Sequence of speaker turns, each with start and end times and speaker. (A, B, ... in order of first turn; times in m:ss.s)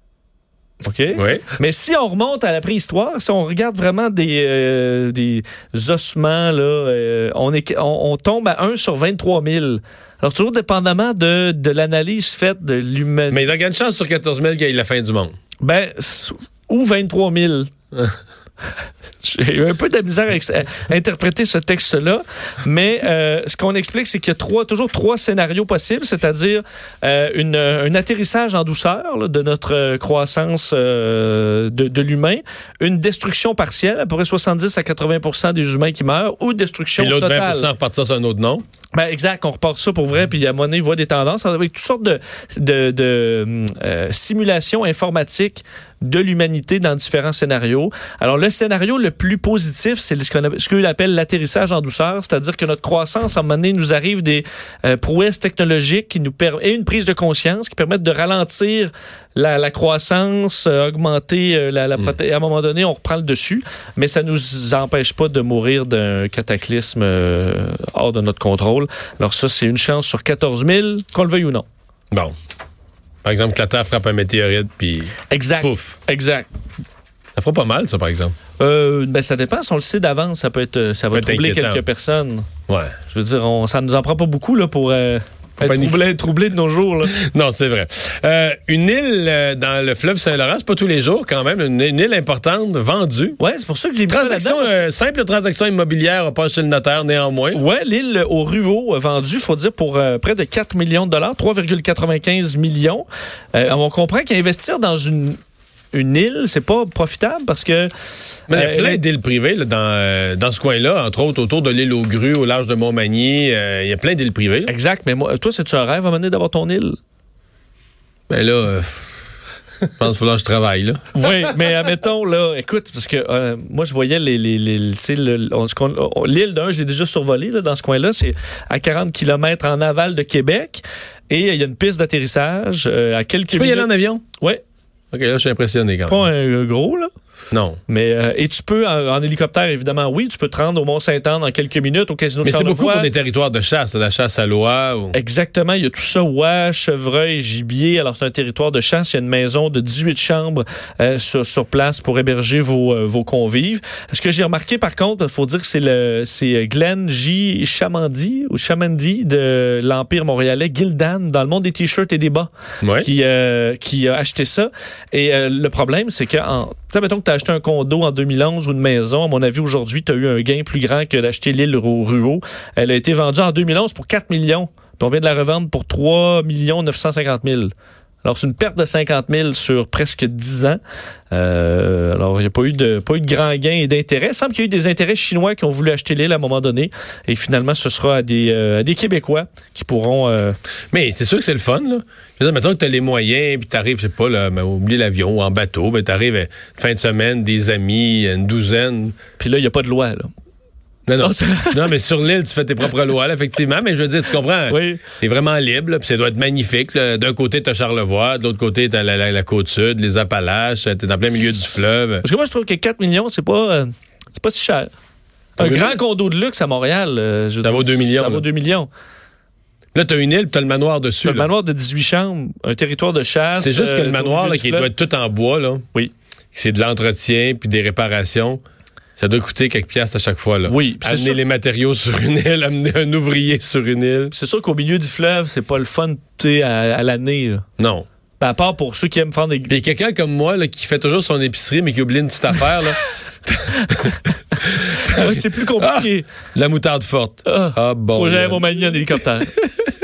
0:00.8-0:13.4 A
0:01.1-0:01.5 B
0:13.3-0:15.4 B
0:15.6-0:17.7 A
0:19.2-0:37.7 A
0:37.0-0:38.6 B
0:39.0-1:11.7 A
1:13.2-1:16.0 B
1:15.3-1:16.5 A
1:17.4-1:18.3 B
1:18.6-1:22.5 A
1:21.1-1:21.8 B
1:22.7-1:23.0 B
1:23.1-1:27.2 A
1:25.6-1:26.0 B
1:27.0-1:33.4 B
1:33.4-1:34.8 A
1:34.1-1:37.6 B
1:37.5-1:45.4 A
1:45.9-1:47.9 A
1:48.5-1:54.7 B
1:48.5-1:49.0 A
1:54.7-1:57.0 A
1:58.3-1:59.2 B
2:00.0-2:01.5 B
2:01.1-2:14.6 A
2:13.5-2:14.2 B
2:15.1-2:16.3 B
2:16.1-2:17.1 A
2:17.5-2:17.8 B
2:17.9-2:23.1 A
2:22.4-2:25.2 B
2:25.1-2:42.5 A
2:42.8-2:43.1 B
2:43.0-3:00.8 A
3:01.3-3:10.6 A
3:10.9-3:19.1 B
3:19.4-3:20.3 A
3:21.1-3:32.2 B
3:21.2-3:21.9 A
3:24.7-3:25.0 A
3:32.2-3:34.9 A
3:35.6-3:36.0 B
3:35.6-3:38.9 A
3:37.6-3:38.4 B
3:39.9-3:41.5 B
3:41.2-3:44.9 A
3:43.6-3:45.8 B
3:46.6-3:48.6 B
3:49.2-3:54.3 B
3:50.7-3:51.4 A
3:54.3-3:57.6 A
3:57.8-3:58.1 B
3:58.4-3:59.7 A
3:59.7-4:08.8 B
4:05.0-4:06.3 A
4:07.5-4:09.9 A